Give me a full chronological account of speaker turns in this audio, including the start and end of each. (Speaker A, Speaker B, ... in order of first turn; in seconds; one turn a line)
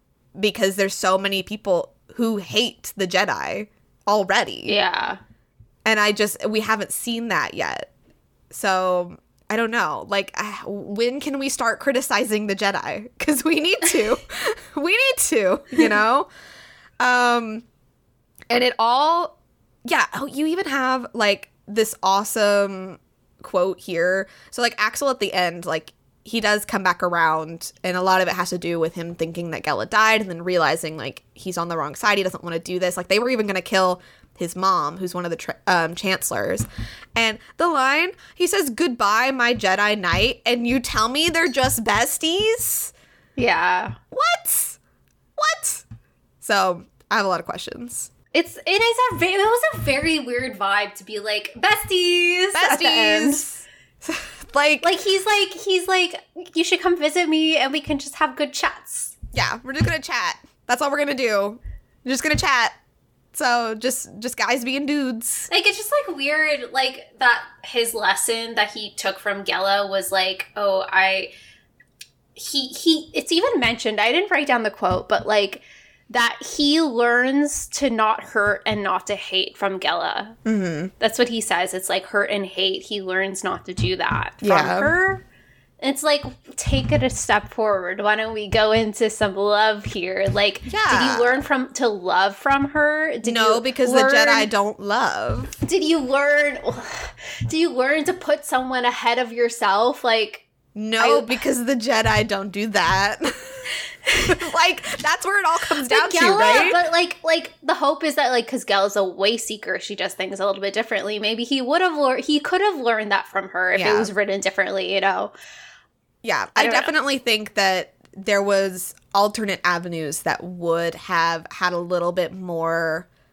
Speaker A: 0.4-4.7
Speaker B: 4.7-5.2
Speaker A: 5.8-7.9
Speaker A: 8.5-16.3
Speaker A: 17.0-17.6
Speaker A: 18.5-19.4
Speaker A: 19.9-42.9
Speaker B: 43.4-44.0
Speaker A: 44.1-44.8
Speaker A: 45.4-45.9
Speaker A: 46.4-48.1
Speaker B: 48.3-53.5
Speaker A: 52.5-54.9
Speaker B: 54.8-59.1
Speaker A: 59.3-62.8
Speaker A: 63.3-65.5
Speaker B: 65.5-71.3
Speaker B: 72.4-80.4
Speaker A: 80.5-80.9
Speaker B: 81.0-85.2
Speaker A: 84.4-84.9
Speaker B: 85.8-94.5
Speaker A: 90.7-91.3
Speaker A: 93.2-95.5
Speaker B: 95.6-100.4
Speaker A: 100.8-103.7
Speaker B: 101.0-101.4
Speaker B: 104.1-104.3
Speaker A: 104.2-106.8
Speaker B: 105.9-115.3
Speaker A: 113.8-114.1
Speaker A: 116.2-123.1
Speaker B: 116.6-116.9